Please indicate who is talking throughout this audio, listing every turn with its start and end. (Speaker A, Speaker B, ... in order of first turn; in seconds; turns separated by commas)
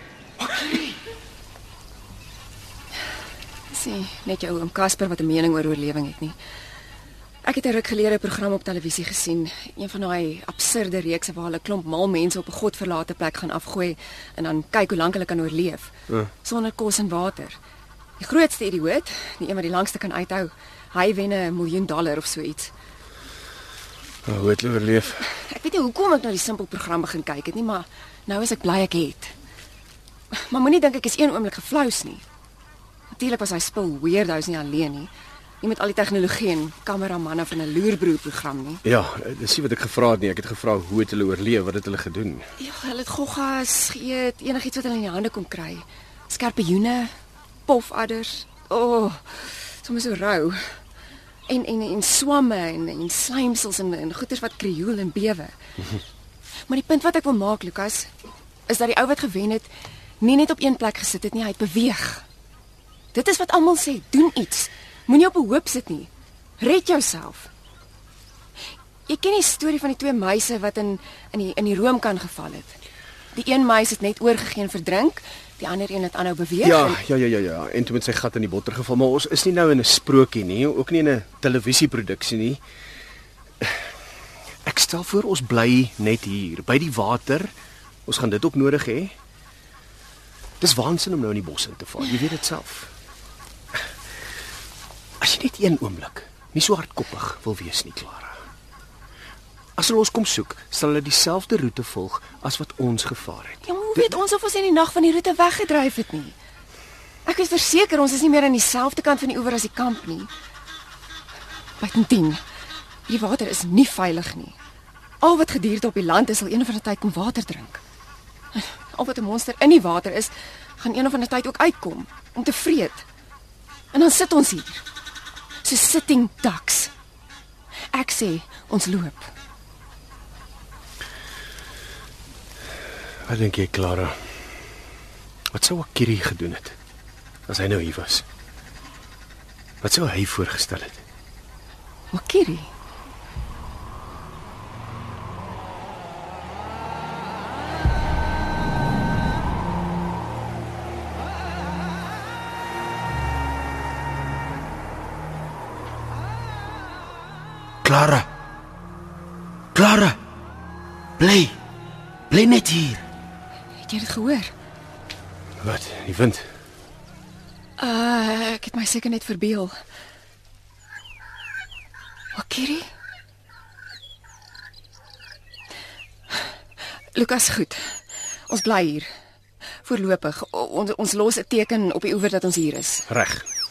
Speaker A: 0.4-1.0, Speaker B: 3.7-6.4, Speaker B: 7.4-17.6, Speaker B: 18.2-22.7, Speaker A: 24.2-25.2, Speaker B: 25.3-29.3, Speaker B: 30.3-32.2, Speaker B: 33.1-38.8, Speaker A: 38.8-42.5, Speaker B: 42.6-47.1, Speaker B: 47.7-50.8, Speaker B: 51.5-55.6, Speaker B: 56.7-58.1, Speaker B: 58.7-59.7, Speaker B: 60.2-62.2, Speaker B: 63.1-67.5, Speaker B: 69.1-72.8, Speaker B: 73.3-77.0, Speaker A: 76.6-82.6, Speaker A: 83.6-83.9, Speaker A: 84.6-87.5, Speaker A: 88.1-89.2, Speaker A: 90.6-92.9, Speaker A: 95.2-98.4, Speaker A: 99.8-104.2, Speaker B: 103.7-106.4, Speaker B: 107.2-110.3, Speaker B: 111.8-112.4, Speaker B: 113.1-114.6, Speaker B: 115.2-117.8, Speaker B: 118.5-123.1, Speaker B: 123.9-124.8, Speaker B: 125.6-126.9, Speaker B: 127.9-129.3, Speaker A: 133.2-134.4, Speaker A: 135.5-136.8, Speaker A: 137.5-138.2, Speaker A: 139.8-141.0, Speaker B: 142.1-142.7, Speaker C: 157.8-158.3, Speaker C: 159.7-160.2, Speaker C: 161.2-161.6, Speaker C: 162.3-163.1, Speaker B: 163.8-164.5, Speaker A: 165.6-166.5, Speaker B: 167.8-169.8, Speaker B: 172.3-172.9, Speaker B: 177.1-179.1, Speaker B: 179.8-183.1, Speaker A: 183.1-183.5